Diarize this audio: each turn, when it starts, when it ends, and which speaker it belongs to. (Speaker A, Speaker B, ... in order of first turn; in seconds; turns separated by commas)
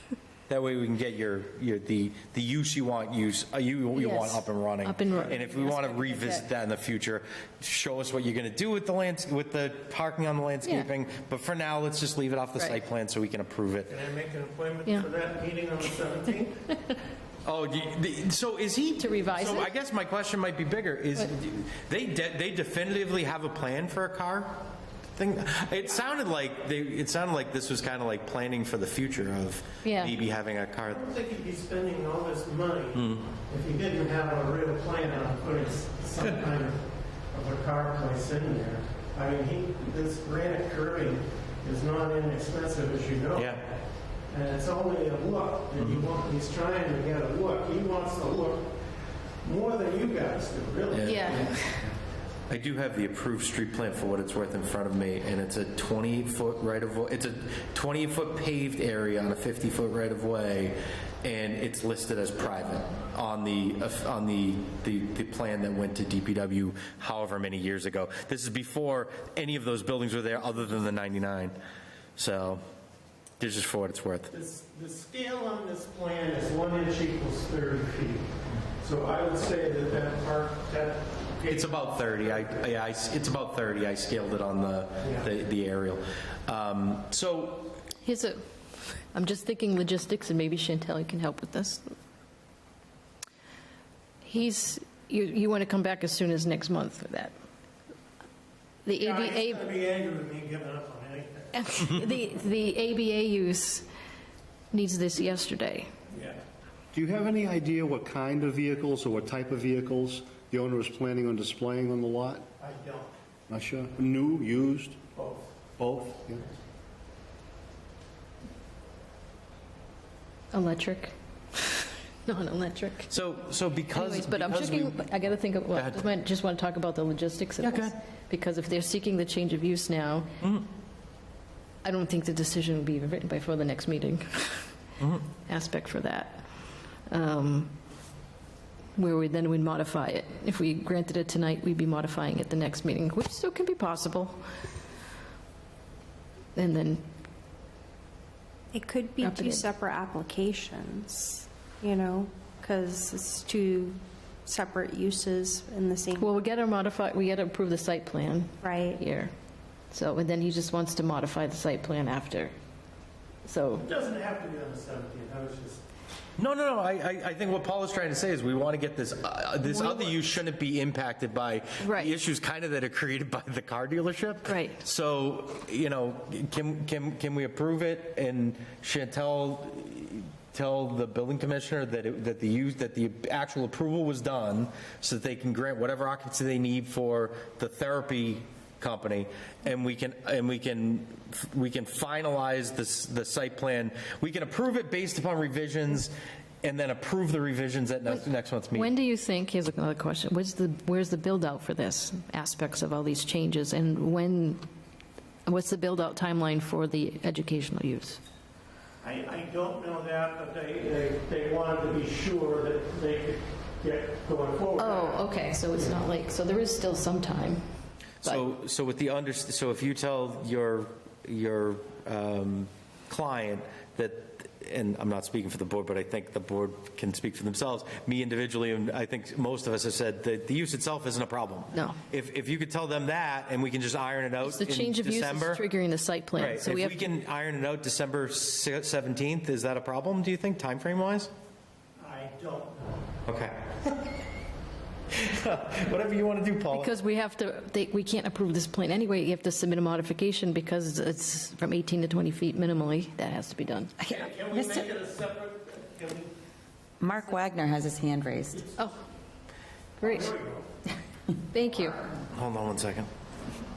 Speaker A: 0.5-13.9, Speaker B: 3.9-6.5, Speaker B: 10.6-10.9, Speaker C: 13.9-16.6, Speaker A: 17.4-24.6, Speaker B: 19.0-19.7, Speaker A: 25.1-31.0, Speaker B: 29.8-30.1, Speaker C: 30.9-43.8, Speaker A: 32.9-33.2, Speaker A: 43.4-43.6, Speaker C: 44.3-48.7, Speaker A: 45.8-46.0, Speaker C: 49.4-51.7, Speaker A: 50.9-51.9, Speaker B: 51.0-51.8, Speaker A: 52.5-71.5, Speaker A: 72.2-72.6, Speaker A: 73.4-74.3, Speaker C: 74.3-82.6, Speaker A: 81.5-87.8, Speaker C: 85.0-85.3, Speaker B: 88.0-91.9, Speaker B: 94.2-97.3, Speaker B: 98.8-99.7, Speaker C: 98.9-101.6, Speaker B: 101.5-103.9, Speaker B: 104.7-105.9, Speaker C: 106.1-106.4, Speaker D: 106.9-112.4, Speaker C: 112.6-113.2, Speaker D: 113.5-115.0, Speaker C: 115.1-115.6, Speaker D: 115.8-116.4, Speaker B: 120.5-123.1, Speaker A: 123.1-125.0, Speaker B: 123.9-130.3, Speaker A: 125.7-126.0, Speaker A: 127.6-127.9, Speaker A: 130.4-130.7, Speaker B: 131.8-134.8, Speaker A: 135.0-135.3, Speaker B: 135.5-137.7, Speaker B: 139.0-144.4, Speaker B: 146.6-147.0, Speaker E: 148.7-156.3, Speaker B: 149.2-149.7, Speaker B: 156.2-159.3, Speaker E: 158.6-159.0, Speaker B: 159.9-162.5, Speaker B: 163.4-163.8, Speaker C: 163.8-165.8, Speaker A: 166.4-198.9, Speaker B: 169.6-170.2, Speaker B: 171.8-172.1, Speaker B: 174.5-174.8, Speaker B: 198.1-204.6, Speaker B: 205.5-208.2, Speaker C: 209.0-215.2, Speaker B: 214.8-217.6, Speaker A: 218.2-235.6, Speaker B: 234.4-237.1, Speaker A: 236.4-241.3, Speaker C: 242.0-243.1, Speaker A: 243.3-244.1, Speaker A: 245.1-246.9, Speaker B: 246.7-253.9, Speaker F: 254.0-254.8, Speaker C: 254.1-256.3, Speaker F: 257.0-258.6, Speaker B: 260.0-260.3, Speaker C: 260.0-260.7, Speaker B: 261.5-262.0, Speaker A: 262.3-263.1